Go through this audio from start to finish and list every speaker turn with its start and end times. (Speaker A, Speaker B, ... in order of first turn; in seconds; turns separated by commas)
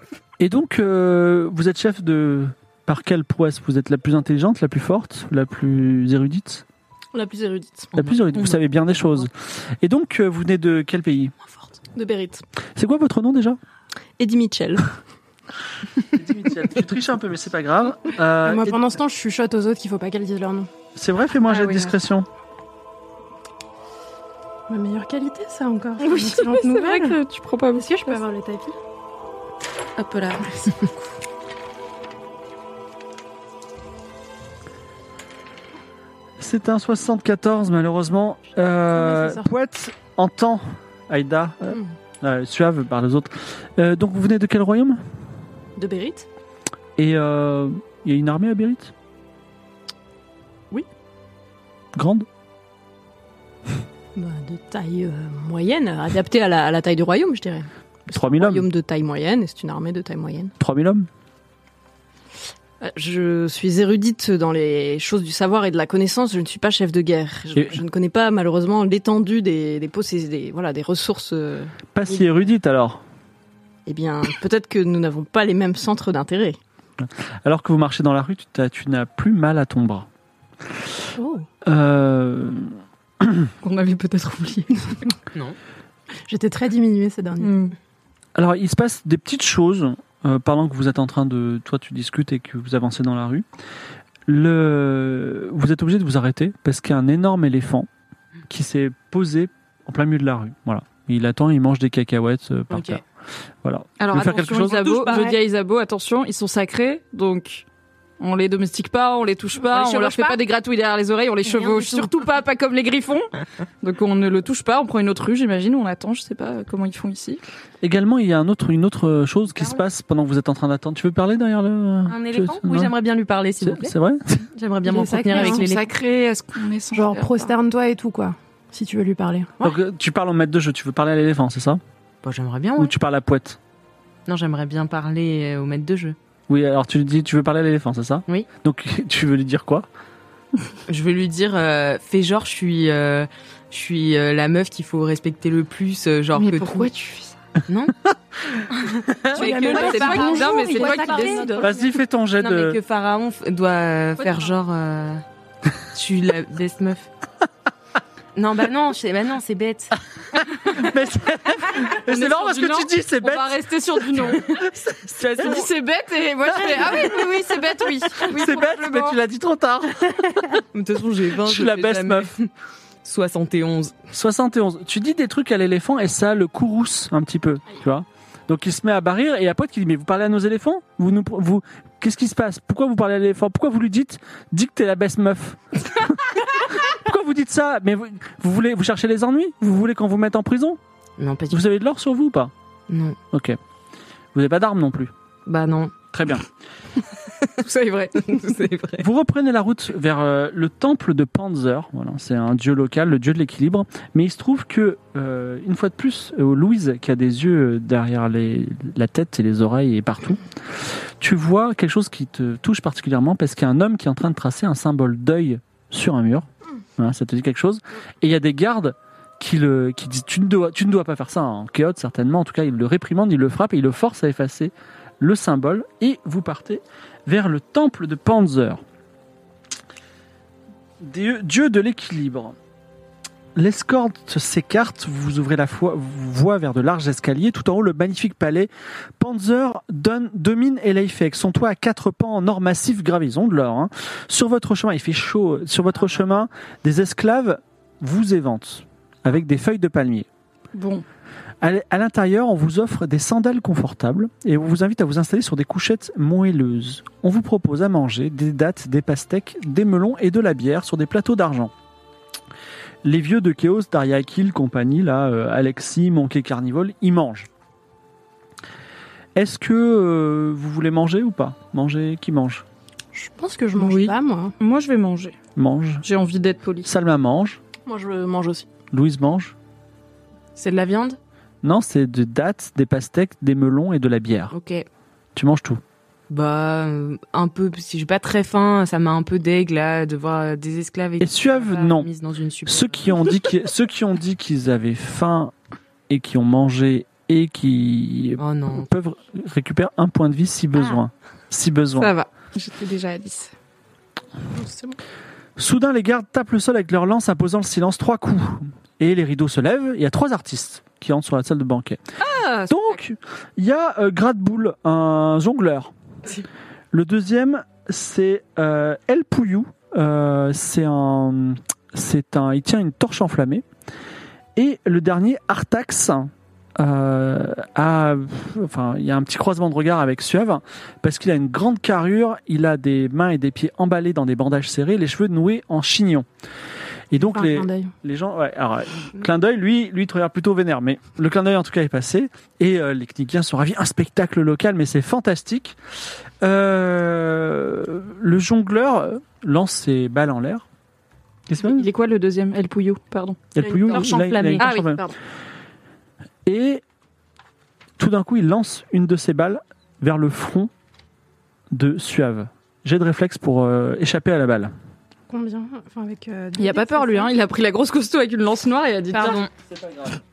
Speaker A: 0.4-6.6, Speaker B: 7.1-7.9, Speaker A: 8.0-9.3, Speaker C: 8.0-8.9, Speaker A: 9.8-11.3, Speaker B: 11.9-12.4, Speaker A: 12.8-13.6, Speaker B: 14.2-14.9, Speaker A: 16.1-18.9, Speaker D: 18.4-20.7, Speaker A: 20.9-22.3, Speaker D: 21.5-21.7, Speaker D: 24.7-27.2, Speaker E: 26.0-28.2, Speaker D: 27.7-28.8, Speaker E: 30.0-30.6, Speaker A: 36.4-45.0, Speaker D: 39.0-39.4, Speaker B: 45.8-46.3, Speaker A: 47.0-48.9, Speaker A: 52.0-52.3, Speaker B: 54.1-60.5, Speaker A: 58.1-58.7, Speaker A: 60.6-61.1, Speaker B: 62.8-71.8, Speaker A: 67.5-67.8, Speaker A: 71.9-73.0, Speaker B: 73.9-76.6, Speaker A: 77.0-80.1, Speaker D: 81.2-81.5, Speaker A: 81.6-83.5, Speaker E: 83.6-85.0, Speaker D: 86.3-87.6, Speaker E: 87.4-87.7, Speaker A: 88.4-93.5, Speaker A: 94.3-97.9, Speaker A: 98.5-103.0, Speaker C: 102.7-103.0, Speaker A: 103.6-105.2, Speaker E: 104.0-107.6, Speaker C: 105.0-105.3, Speaker E: 108.2-113.3, Speaker E: 113.8-117.4, Speaker A: 117.8-122.9, Speaker C: 122.1-124.0, Speaker A: 123.6-124.5, Speaker C: 124.5-125.9, Speaker D: 124.8-125.7, Speaker E: 125.3-127.5, Speaker D: 126.9-129.6, Speaker A: 129.6-131.8, Speaker C: 132.2-132.9, Speaker A: 132.8-133.6, Speaker C: 134.3-136.2, Speaker A: 136.5-139.9, Speaker C: 140.9-146.9, Speaker E: 146.4-147.3, Speaker C: 147.7-147.9, Speaker C: 149.1-151.5, Speaker D: 149.3-151.7, Speaker E: 149.3-151.7, Speaker A: 151.6-152.8, Speaker C: 152.4-155.2, Speaker E: 154.2-154.5, Speaker C: 155.9-157.1, Speaker C: 158.4-160.0, Speaker A: 160.5-164.6, Speaker E: 161.9-164.6, Speaker C: 164.8-165.7, Speaker E: 165.3-169.2, Speaker A: 166.6-166.9, Speaker A: 168.2-170.6, Speaker C: 170.6-172.5, Speaker A: 171.4-172.3, Speaker C: 173.0-173.9, Speaker A: 174.1-190.8, Speaker C: 191.2-191.6, Speaker A: 191.5-192.5, Speaker C: 192.9-193.2, Speaker A: 193.3-193.6, Speaker A: 194.3-195.1, Speaker C: 195.4-195.9, Speaker A: 196.1-196.4, Speaker C: 197.6-199.1, Speaker A: 199.0-228.8, Speaker A: 231.0-232.6, Speaker A: 233.6-250.3, Speaker E: 250.7-251.1, Speaker A: 251.6-261.7, Speaker A: 263.0-267.5, Speaker A: 269.4-272.6, Speaker D: 273.2-274.5, Speaker E: 273.8-275.4, Speaker A: 275.6-276.1, Speaker E: 276.0-276.9, Speaker A: 276.9-277.6, Speaker B: 277.9-278.7, Speaker A: 278.9-279.6, Speaker C: 280.6-281.2, Speaker A: 281.6-284.5, Speaker C: 284.5-284.9, Speaker A: 285.4-285.8, Speaker C: 286.3-293.4, Speaker A: 291.2-292.1, Speaker A: 292.7-295.5, Speaker A: 296.1-302.1, Speaker C: 298.4-298.9, Speaker E: 301.9-303.5, Speaker A: 305.6-312.0, Speaker E: 312.2-313.0, Speaker A: 312.7-315.9, Speaker A: 316.9-323.6, Speaker A: 324.6-336.3, Speaker A: 337.1-345.8, Speaker D: 337.2-337.9, Speaker A: 346.4-350.6, Speaker A: 351.5-351.8, Speaker E: 351.6-354.0, Speaker A: 353.6-355.0, Speaker B: 353.6-355.1, Speaker C: 354.2-354.6, Speaker E: 354.6-354.9, Speaker A: 356.4-356.8, Speaker A: 358.0-360.7, Speaker A: 361.7-364.7, Speaker D: 365.3-367.3, Speaker E: 366.6-369.4, Speaker C: 369.1-369.5, Speaker A: 369.7-370.2